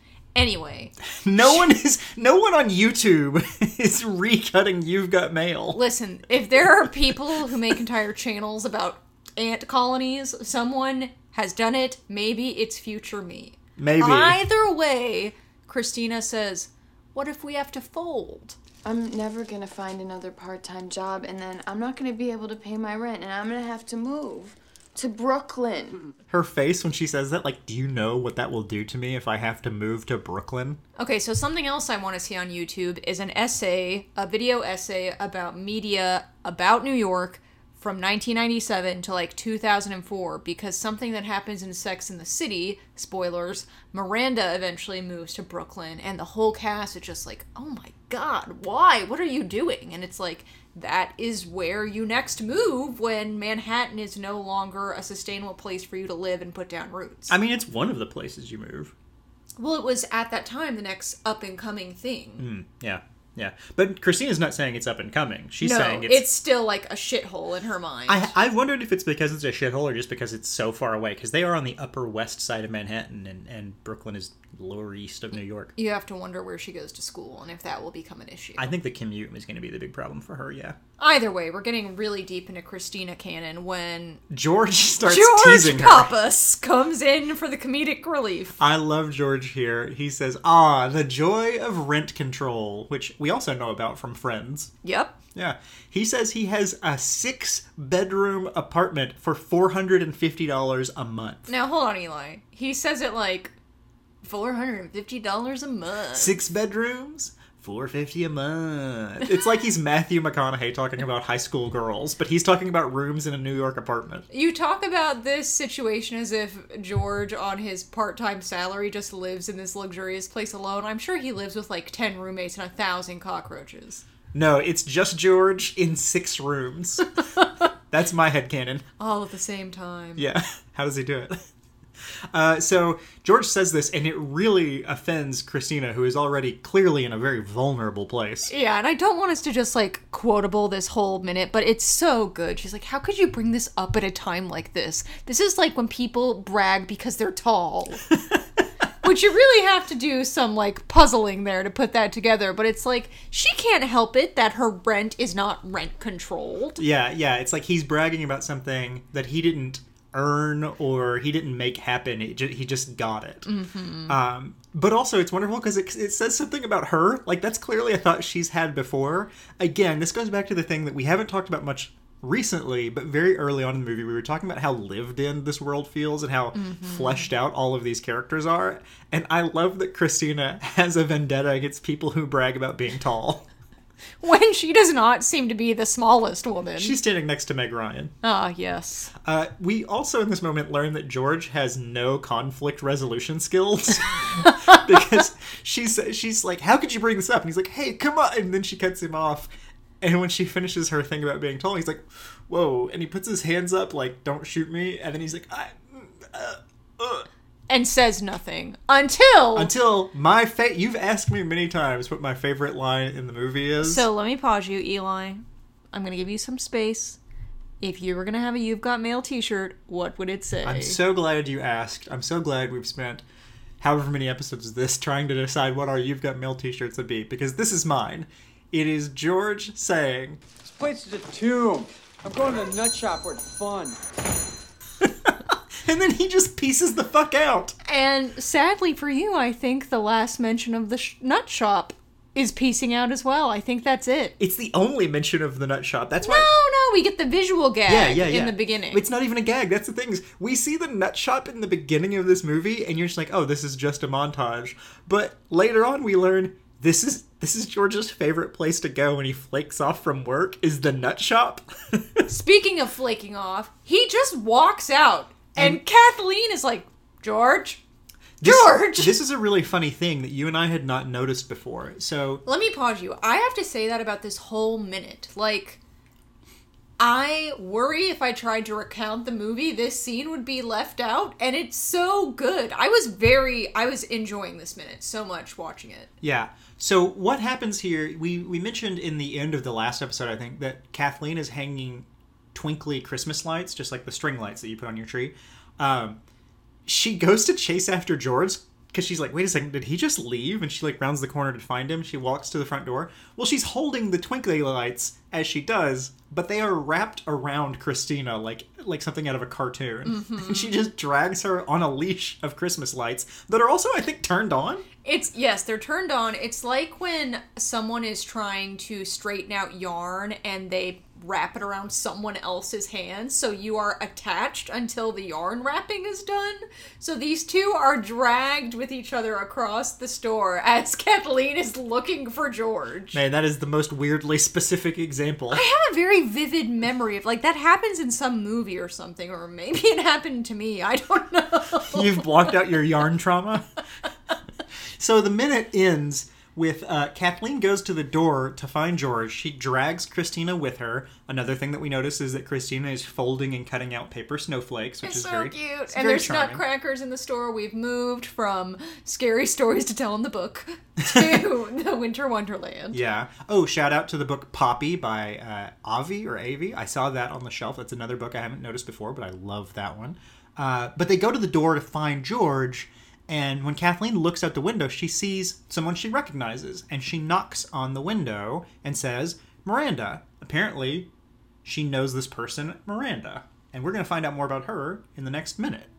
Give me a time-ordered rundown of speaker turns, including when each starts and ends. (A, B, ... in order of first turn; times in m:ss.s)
0:00.3-0:00.9 A
0:01.1-0:05.8 B
0:05.7-0:18.6 A
0:13.8-0:14.4 B
0:18.8-0:26.1 C
0:26.3-0:30.8 B
0:31.0-0:57.3 A
0:57.3-0:58.9 B
0:59.6-1:02.4 A
1:02.4-1:06.2 B
1:05.6-1:08.3 A
1:08.1-1:15.7 B
1:15.8-1:18.7 A
1:18.6-1:20.8 B
1:21.0-1:24.2 A
1:24.3-1:26.1 B
1:25.0-1:28.6 A
1:28.6-1:34.7 B
1:34.8-1:35.2 A
1:35.3-1:41.5 B
1:41.5-1:43.5 A
1:44.2-1:46.4 A
1:46.1-1:54.2 B
1:54.3-2:04.0 A
2:04.3-2:07.1 B
2:07.9-2:08.8 B
2:09.0-2:10.2 A
2:10.2-2:11.3 B
2:12.3-2:18.5 B
2:18.5-2:28.0 A
2:29.0-2:36.8 A
2:36.8-2:43.5 B
2:43.4-2:44.1 A
2:44.1-3:03.4 B
2:56.6-2:57.3 A
3:04.2-3:07.0 A
3:06.8-3:08.1 B
3:08.2-3:09.1 A
3:09.2-3:19.5 B
3:20.0-3:27.3 B
3:27.7-3:29.7 A
3:29.6-3:34.0 B
3:33.8-3:37.2 A
3:37.8-3:41.0 A
3:40.6-3:43.2 B
3:43.8-3:50.4 B
3:50.6-3:54.0 D
3:55.0-3:57.7 B
3:57.8-4:04.3 A
4:04.4-4:06.5 B
4:06.2-4:09.0 A
4:07.9-4:22.2 B
4:22.3-4:27.8 A
4:25.6-4:25.8 B
4:28.4-4:32.4 B
4:28.4-4:29.1 A
4:32.4-4:35.8 A
4:37.0-4:46.1 A
4:46.2-4:56.2 B
4:56.8-5:14.8 B
5:10.0-5:10.8 A
5:15.0-5:33.2 A
5:33.1-5:35.6 B
5:35.5-5:42.7 A
5:41.9-5:43.6 B
5:45.0-5:56.6 B
5:55.0-6:03.0 A
6:01.1-6:01.4 B
6:02.9-6:21.1 B
6:21.6-6:25.9 B